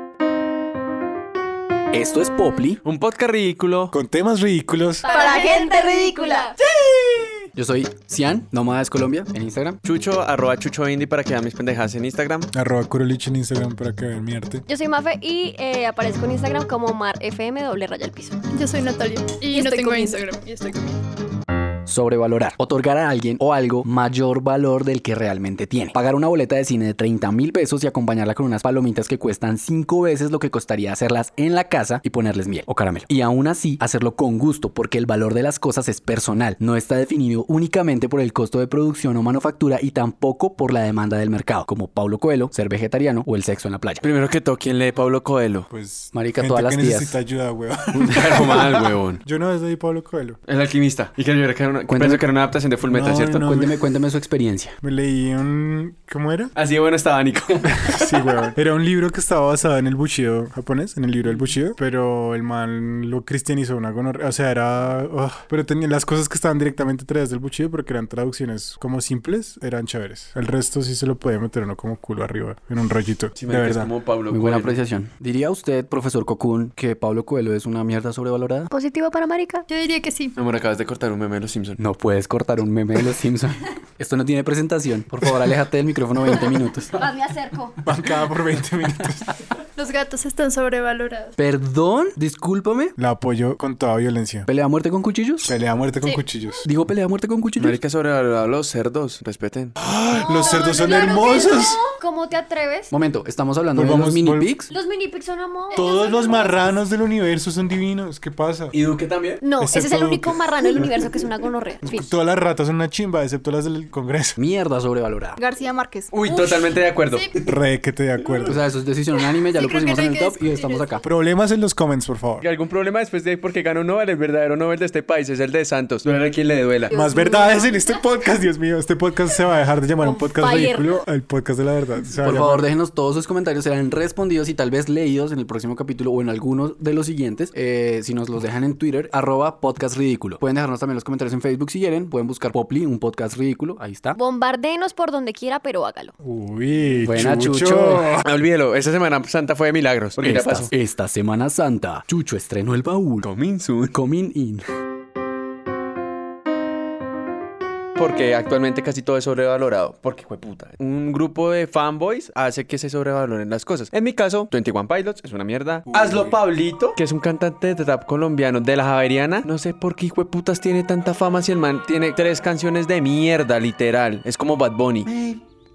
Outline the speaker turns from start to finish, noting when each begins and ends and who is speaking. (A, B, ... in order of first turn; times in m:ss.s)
0:01.9-0:02.8 A
0:02.8-0:03.9 B
0:03.9-0:05.1 C
0:05.0-0:06.5 D
0:05.1-0:06.3 E
0:06.6-0:07.3 B
0:07.5-0:09.8 A
0:09.8-0:12.5 B
0:12.5-0:14.6 C
0:14.7-0:18.4 D
0:18.5-0:20.9 E
0:19.4-0:20.2 D
0:21.8-0:44.0 A
0:44.0-0:45.7 B
0:45.7-0:50.4 C
0:46.1-0:47.2 A
0:47.9-0:49.2 B
0:50.5-0:53.4 B
0:51.9-0:52.2 A
0:52.8-0:53.8 C
0:53.4-0:54.8 A
0:54.8-0:56.5 C
0:56.5-0:58.5 B
0:57.7-1:13.9 C
1:13.4-1:14.8 B
1:14.3-1:18.7 A
1:18.7-1:19.6 D
1:19.7-1:20.3 E
1:20.4-1:21.8 B
1:21.8-1:27.0 A
1:26.9-1:27.8 D
1:27.8-1:29.4 C
1:29.8-1:31.3 E
1:31.4-1:33.0 A
1:33.0-1:34.5 C
1:34.5-1:35.5 A
1:35.4-1:36.6 C
1:36.6-1:37.8 A
1:37.6-1:39.8 B
1:39.8-1:41.8 C
1:40.2-1:42.9 D
1:40.4-1:41.4 E
1:42.9-1:44.7 A
1:43.7-1:44.5 C
1:44.7-1:46.7 D
1:45.7-1:46.2 E
1:45.7-1:48.8 C
1:48.7-1:49.4 B
1:49.4-1:52.1 D
1:49.6-1:51.0 C
1:51.8-1:54.4 C
1:54.4-1:55.4 A
1:55.4-1:57.3 E
1:56.1-1:57.4 B
1:57.4-1:58.6 C
1:58.4-2:01.0 A
1:59.4-2:01.0 E
2:01.0-2:02.4 C
2:02.4-2:07.0 B
2:06.9-2:12.7 C
2:06.9-2:07.7 D
2:10.0-2:11.0 D
2:12.2-2:24.2 A
2:24.2-2:26.1 D
2:26.2-2:28.2 C
2:27.0-2:28.2 A
2:28.2-2:30.7 B
2:30.2-2:33.3 A
2:33.2-2:33.9 B
2:33.9-2:34.6 A
2:38.0-2:55.4 B
2:45.9-2:46.4 C